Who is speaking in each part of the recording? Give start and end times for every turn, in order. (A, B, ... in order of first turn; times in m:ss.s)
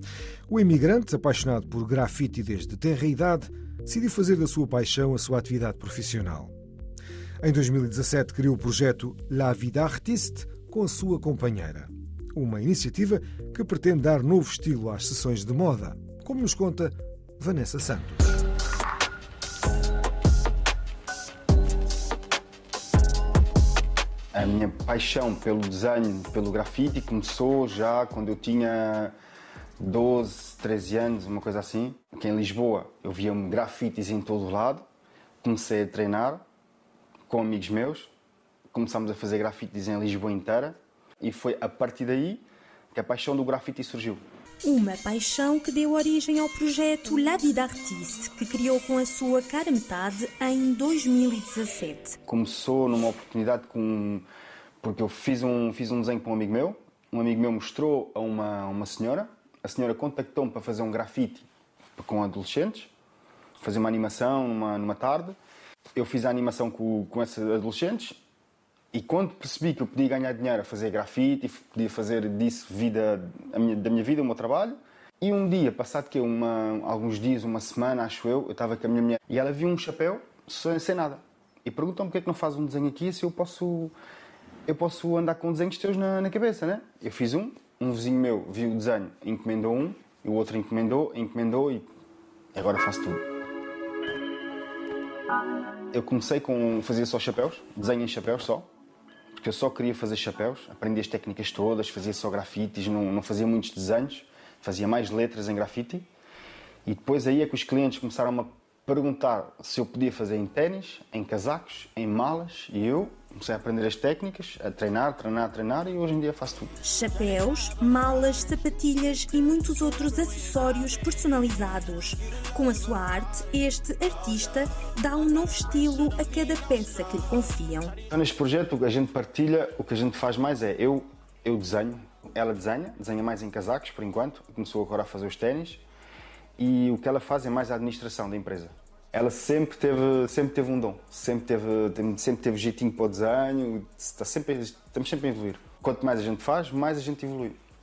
0:00.5-0:06.5 A
0:07.4-0:18.4 A
0:24.3-0:29.1 B
0:29.8-0:34.8 B
0:35.4-0:36.4 B
0:37.3-0:38.1 B
0:38.7-0:44.2 B
0:44.6-0:52.2 C
0:52.3-0:54.2 B
0:54.8-1:01.4 B
1:02.0-1:02.9 B
1:03.6-1:05.4 B
1:06.0-1:08.2 B
1:08.9-1:23.9 B
1:24.7-1:31.8 B
1:32.5-1:33.2 B
1:35.9-1:38.7 B
1:39.4-1:46.0 B
1:46.8-1:56.7 B
1:56.8-2:07.9 C
2:08.1-2:15.8 B
2:16.6-2:27.6 B